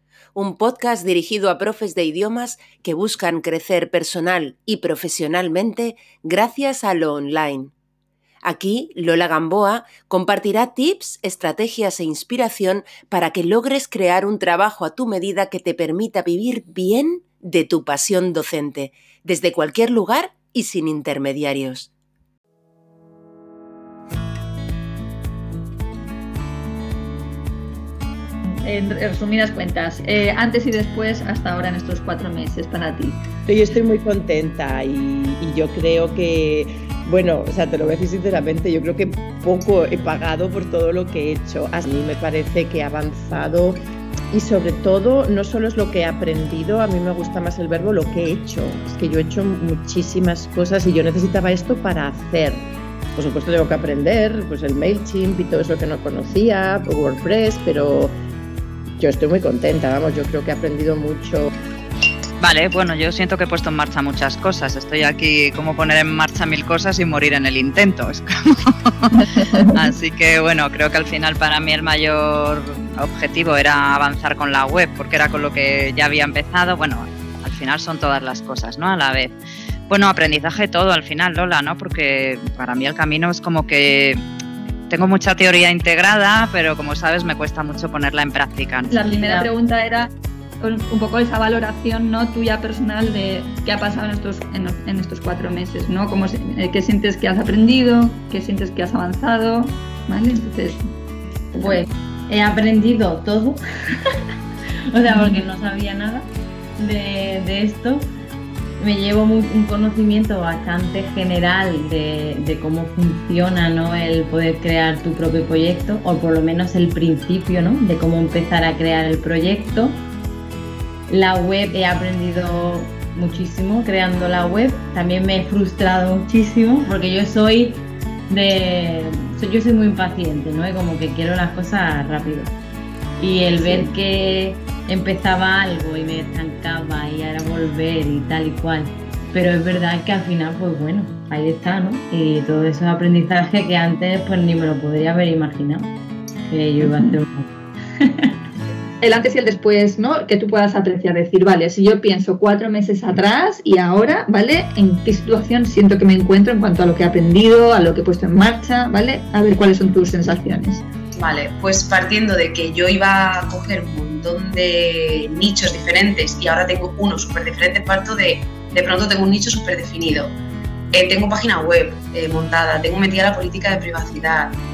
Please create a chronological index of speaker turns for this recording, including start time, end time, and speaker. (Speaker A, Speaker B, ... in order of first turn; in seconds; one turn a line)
Speaker A: 0.3-7.7
Speaker A: 8.4-21.9
Speaker B: 28.6-33.2
Speaker C: 33.5-43.8
Speaker C: 44.3-58.1
Speaker C: 59.0-61.5
Speaker D: 62.4-79.4
Speaker D: 79.9-84.2
Speaker D: 84.9-89.5
Speaker B: 88.9-90.1
Speaker B: 90.6-100.9
Speaker E: 101.6-103.6
Speaker E: 104.9-108.0
Speaker E: 108.8-120.0
Speaker E: 121.1-132.5
Speaker E: 133.2-145.9
Speaker E: 146.5-147.4
Speaker B: 149.0-160.8
Speaker F: 161.2-170.3
Speaker F: 170.9-174.6